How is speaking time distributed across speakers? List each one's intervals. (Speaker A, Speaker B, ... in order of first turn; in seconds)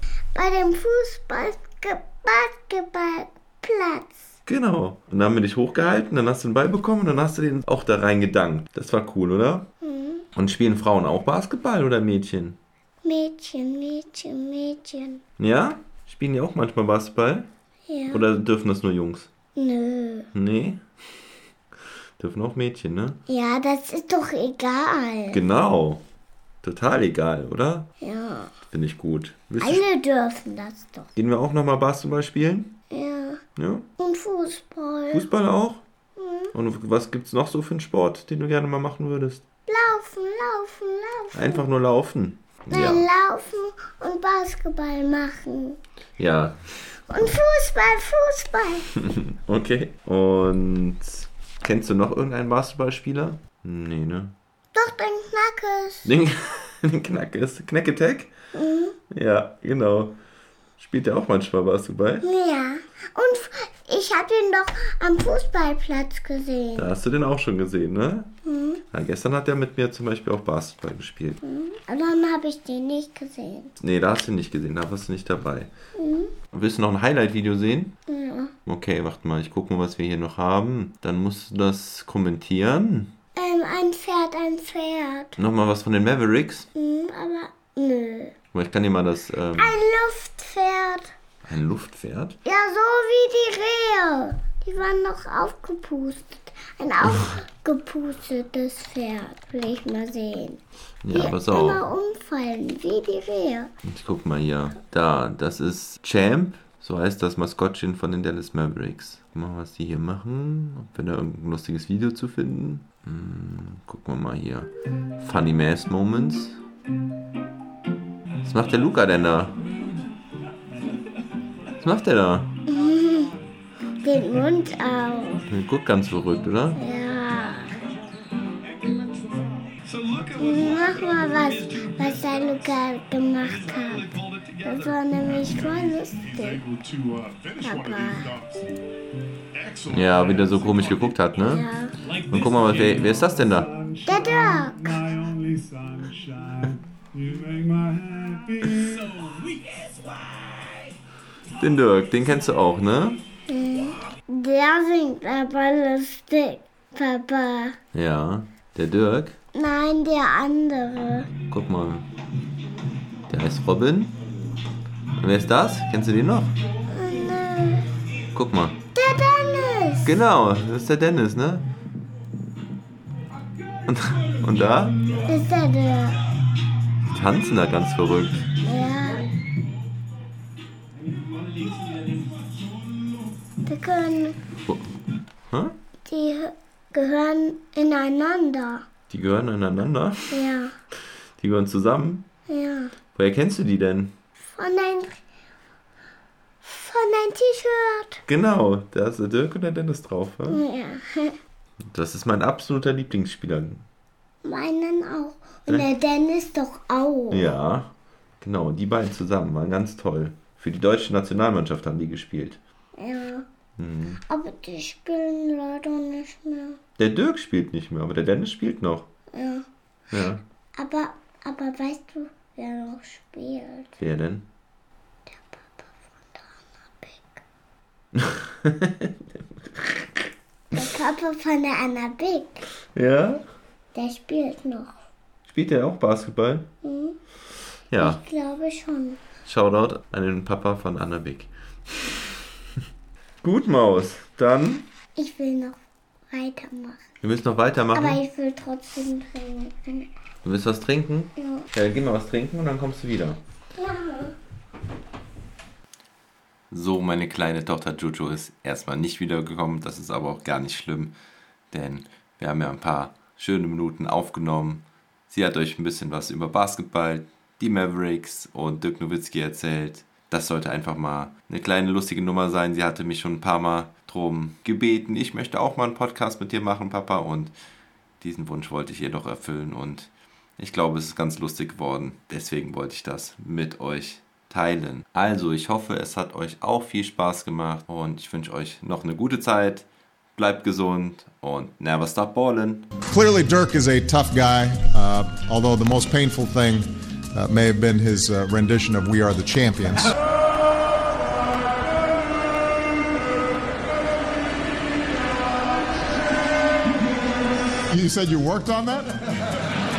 Speaker A: 0.3-4.2, 9.8-10.3, 13.0-15.2, 17.9-18.3, 19.6-20.3, 23.3-25.4, 28.0-28.6, 29.6-31.1, 32.9-33.4, 34.0-35.3, 36.2-36.5, 39.7-41.7, 42.7-45.8, 47.1-48.9, 54.7-56.1, 58.5-59.0, 62.2-66.9, 68.5-68.8, 71.4-73.7, 76.0-76.3, 78.1-78.5, 83.3-85.4, 86.8-88.3, 89.6-91.1, 92.5-103.7, 122.7-123.4, 124.0-125.5, 126.8-127.7, 130.4-136.6, 137.6-138.3, 141.4-141.9, 144.1-145.1, 153.5-157.8, 159.5-161.3, 166.9-167.9, 168.9-170.2, 175.2-176.2, 178.6-179.3, 183.7-184.4, 186.1-188.8, 190.3-190.8, 192.5-192.9, 194.5-195.2, 196.6-198.2, 200.5-201.4, 204.4-207.5, 213.0-213.5, 214.3-216.8, 219.3-219.7, 220.8-224.0, 225.3-227.4, 230.7-232.6, 233.9-234.9, 236.8-237.2, 238.0-239.2, 245.2-245.8, 246.3-247.1, 247.9-250.1, 251.4-251.7, 253.8-254.3
Speaker B: 4.5-9.7, 10.4-12.6, 15.4-17.5, 18.1-19.3, 20.3-20.8, 22.2-23.2, 25.3-26.0, 26.6-27.9, 28.7-29.8, 31.2-32.7, 33.6-33.9, 35.1-35.8, 36.5-39.4, 41.3-43.1, 46.2-46.6, 49.0-54.3, 56.0-58.3, 59.1-60.2, 60.8-62.3, 66.8-68.3, 68.9-71.4, 73.8-75.7, 76.5-77.9, 78.7-83.1, 85.4-86.7, 88.5-89.7, 91.5-92.4, 101.0-101.8, 103.8-116.6, 118.4-119.6, 121.8-122.6, 125.5-126.8, 139.9-141.6, 142.3-143.7, 151.6-153.2, 157.9-159.4, 161.5-162.1, 163.3-164.2, 165.2-166.5, 168.3-168.8, 170.0-171.7, 173.9-175.0, 177.1-178.5, 185.5-185.8, 189.1-190.4, 191.4-192.2, 193.2-194.1, 198.3-200.6, 201.9-203.8, 207.3-212.6, 213.8-214.2, 217.0-219.1, 220.1-220.4, 224.0-224.5, 228.1-229.2, 229.7-230.1, 232.9-233.4, 235.4-236.7, 237.9-238.2, 239.5-242.4, 243.4-244.9, 247.2-248.2, 250.4-253.4, 256.7-261.1, 261.7-277.5, 278.2-289.9, 290.4-292.9
Speaker C: 128.9-132.6, 133.4-138.7, 139.5-141.2, 142.0-150.8, 175.0-175.3, 181.4-182.3
Speaker D: 293.1-300.2, 307.9-309.3